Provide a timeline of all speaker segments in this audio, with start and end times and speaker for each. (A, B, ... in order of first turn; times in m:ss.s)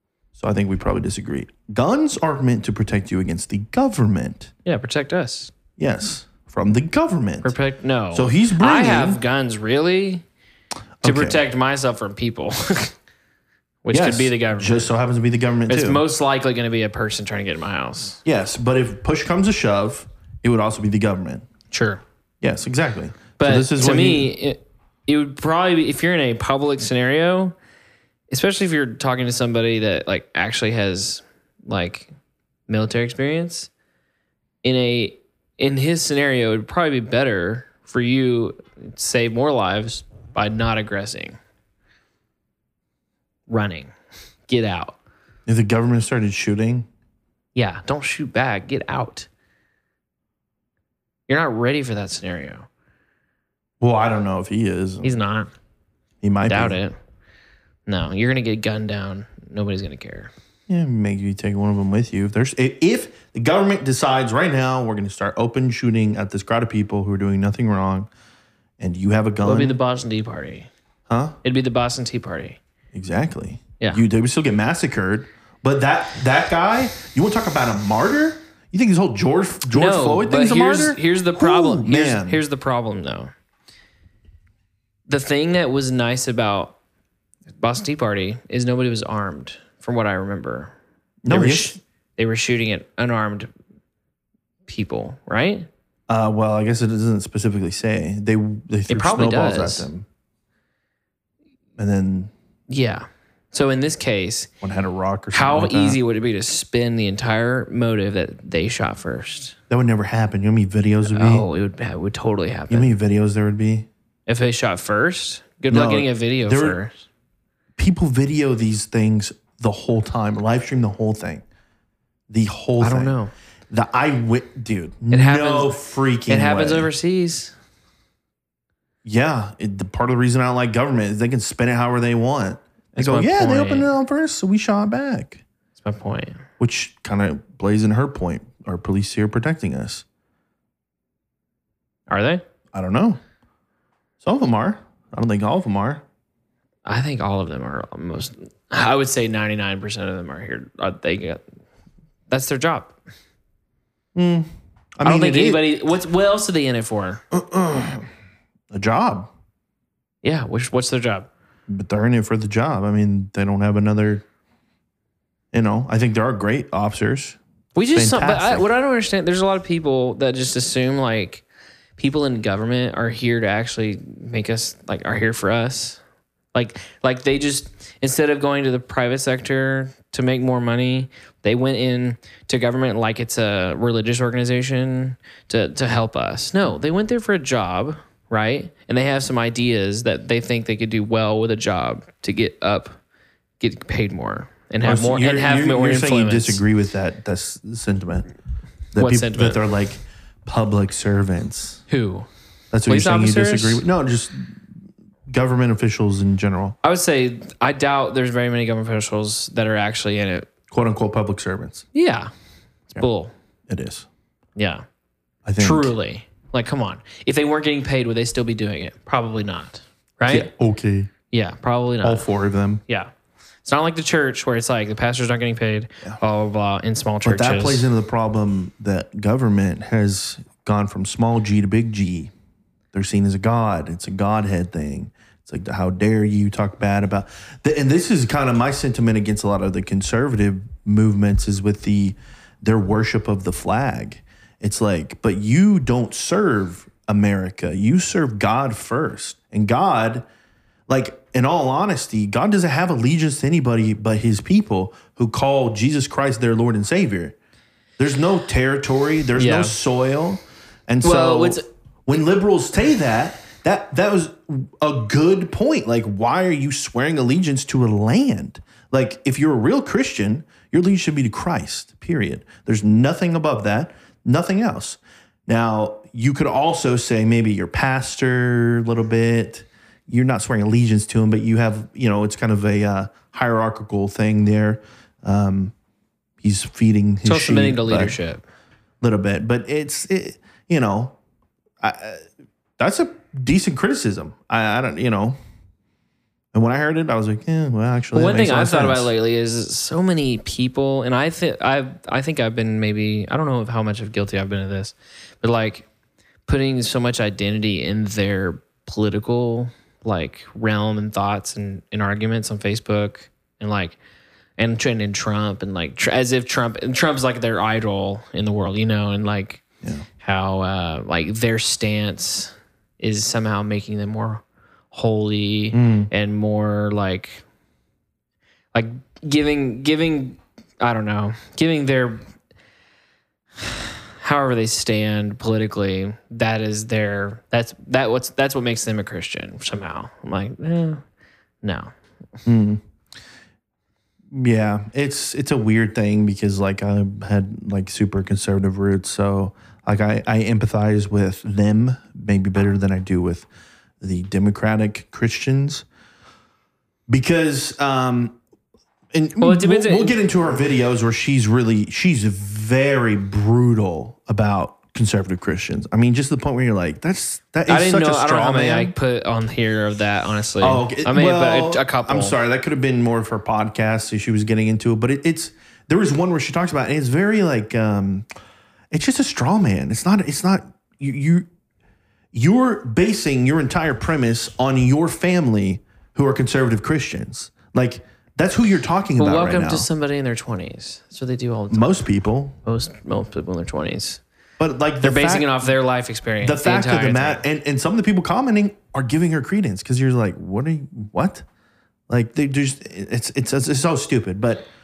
0:00.4-0:04.5 A
0:04.6-0:05.5 B
0:05.8-0:07.6 A
0:07.4-0:10.2 B
0:08.1-0:09.2 A
0:11.0-0:11.4 A
0:11.0-0:12.9 B
0:13.8-0:14.9 B
0:13.9-0:16.0 A
0:15.7-0:18.2 B
0:18.2-0:21.5 A
0:21.7-0:22.0 B
0:22.4-0:24.3 A
0:23.4-0:27.6 B
0:28.3-0:32.1 B
0:32.7-0:33.7 B
0:34.6-0:41.4 B
0:43.5-0:43.9 B
0:44.5-0:45.0 B
0:45.5-0:46.9 A
0:47.6-0:49.3 B
0:51.3-0:52.7 B
0:53.8-0:55.2 A
0:55.0-0:55.5 B
0:56.2-0:56.8 A
0:56.5-0:57.0 B
0:57.9-1:00.3 B
1:00.7-1:08.1 A
1:08.8-1:09.8 A
1:09.4-1:10.7 B
1:11.1-1:11.4 A
1:11.4-1:12.6 B
1:12.9-1:22.4 A
1:19.7-1:23.3 B
1:25.1-1:26.8 B
1:27.6-1:30.7 B
1:31.2-1:31.8 A
1:31.3-1:33.5 B
1:34.7-1:35.7 B
1:36.1-1:40.1 A
1:38.9-1:39.9 B
1:41.8-1:42.3 A
1:42.7-1:44.5 B
1:44.6-1:46.0 A
1:45.3-1:49.6 B
1:49.7-1:51.5 A
1:51.1-1:52.9 B
1:52.7-1:53.9 A
1:54.3-1:56.9 B
1:55.7-1:56.8 A
1:57.8-2:01.4 A
2:02.3-2:03.2 A
2:02.8-2:03.3 B
2:03.7-2:06.9 A
2:05.1-2:07.5 B
2:09.0-2:15.4 A
2:13.0-2:13.9 B
2:15.8-2:16.4 B
2:16.6-2:20.0 A
2:22.1-2:22.4 B
2:22.7-2:23.2 A
2:24.2-2:26.0 A
2:26.8-2:31.4 B
2:32.3-2:33.0 B
2:34.2-2:35.7 A
2:35.0-2:37.2 B
2:37.3-2:38.1 A
2:38.7-2:39.3 A
2:40.2-2:41.3 B
2:41.7-2:44.2 A
2:45.5-2:47.4 A
2:47.8-2:51.4 B
2:47.9-2:48.7 A
2:52.0-2:56.0 B
2:56.5-3:13.0 B
3:13.6-3:16.6 B
3:14.8-3:18.3 A
3:18.9-3:21.8 A
3:19.0-3:19.6 B
3:21.9-3:22.3 B
3:22.7-3:24.6 A
3:22.9-3:23.8 B
3:25.3-3:26.8 A
3:26.8-3:30.5 B
3:30.7-3:31.9 A
3:31.9-3:32.3 B
3:32.9-3:33.3 B
3:33.7-3:34.1 A
3:34.6-3:34.8 B
3:35.4-3:35.9 A
3:35.6-3:40.5 B
3:40.3-3:41.1 A
3:41.3-3:42.3 B
3:42.0-3:42.8 A
3:43.6-3:47.9 B
3:47.2-3:52.3 A
3:52.9-4:10.3 A
4:10.9-4:17.4 A
4:18.0-4:45.7 A
4:19.4-4:19.8 B
4:21.0-4:21.7 B
4:46.4-4:48.2 A
4:47.2-4:48.4 B
4:49.0-4:51.2 A
4:51.8-4:52.2 A
4:52.8-4:55.4 A
4:56.5-4:59.1 A
4:58.1-5:05.9 B
5:06.5-5:14.0 B
5:14.6-5:19.6 B
5:20.2-5:27.4 B
5:25.7-5:26.1 A
5:28.7-5:32.2 B
5:33.6-5:41.0 B
5:41.6-5:41.9 B
5:42.5-5:42.8 A
5:44.3-5:53.5 A
5:54.0-5:55.8 A
5:57.1-5:58.4 A
5:59.1-6:08.9 A
5:59.4-6:00.2 B
6:07.7-6:12.4 B
6:10.6-6:18.3 A
6:18.9-6:21.5 A
6:22.3-6:29.9 A
6:29.2-6:32.0 B
6:31.7-6:32.6 A
6:32.6-6:34.2 B
6:34.6-6:35.7 A
6:35.0-6:37.4 B
6:36.4-6:41.4 A
6:42.1-6:44.7 A